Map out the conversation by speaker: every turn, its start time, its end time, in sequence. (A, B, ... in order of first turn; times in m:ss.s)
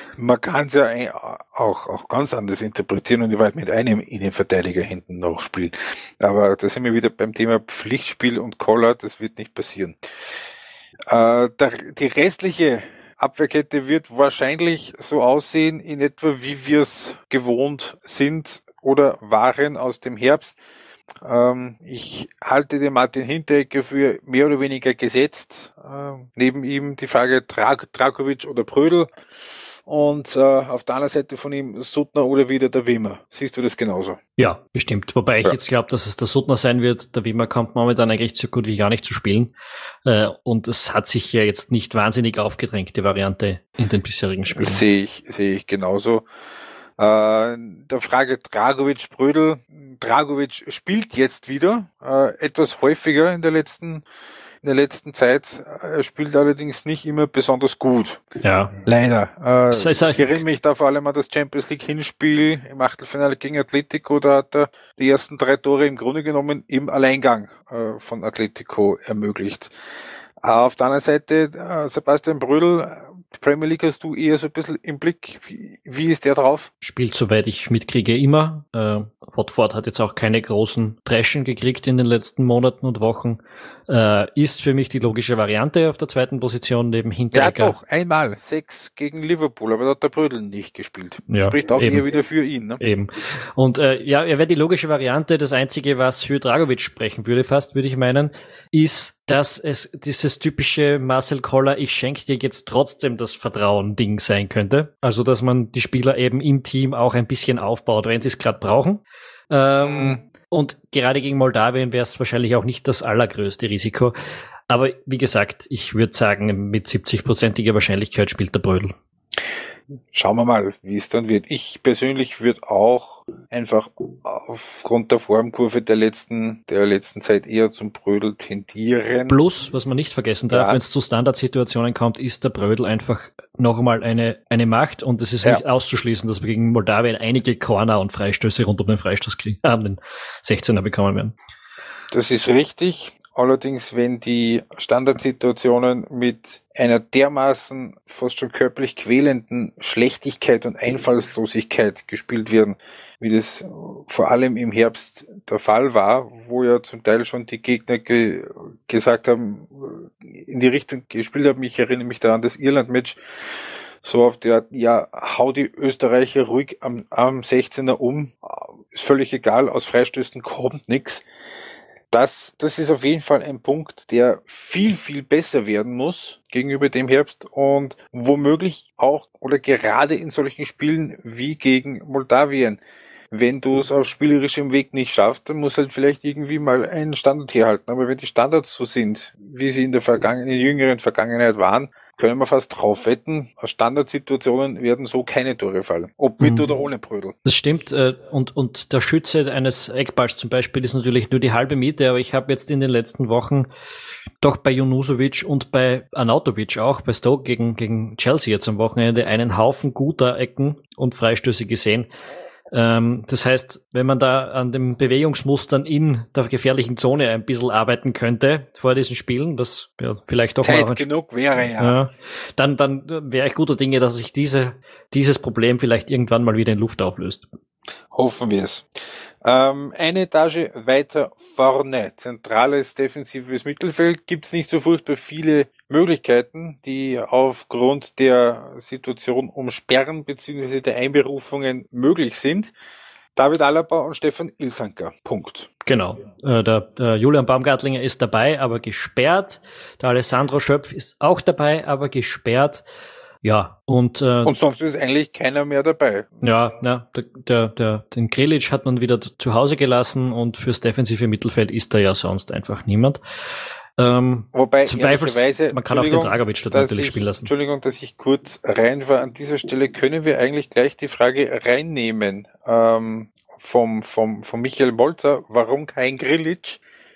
0:00.2-0:10.0 A
0:11.1-0:20.6 A
0:21.2-0:29.1 A
0:29.8-0:34.2 A
0:34.4-0:39.5 B
0:40.0-0:44.8 B
0:44.5-0:46.3 A
0:47.0-0:54.0 A
0:54.6-0:58.2 A
0:58.4-0:58.8 B
0:58.8-1:09.7 A
0:59.7-1:00.4 B
1:10.4-1:16.7 A
1:16.8-1:27.8 B
1:27.3-1:32.8 A
1:31.3-1:32.0 B
1:32.8-1:54.2 B
1:49.9-1:50.2 A
1:54.7-1:59.0 B
2:00.1-2:09.4 A
2:09.3-2:21.4 B
2:10.5-2:10.8 A
2:22.1-2:43.2 A
2:44.0-2:51.2 A
2:52.1-3:02.8 A
3:03.3-3:17.4 A
3:16.4-3:16.7 B
3:17.4-3:23.7 B
3:24.4-3:32.1 B
3:32.7-3:41.1 B
3:40.6-3:42.0 A
3:41.8-3:47.5 B
3:48.1-3:48.9 A
3:49.4-4:02.7 A
4:03.4-4:05.7 A
4:05.9-4:12.8 B
4:13.4-4:14.5 B
4:14.4-4:16.4 A
4:16.4-4:23.2 B
4:24.0-4:27.5 B
4:24.5-4:36.8 A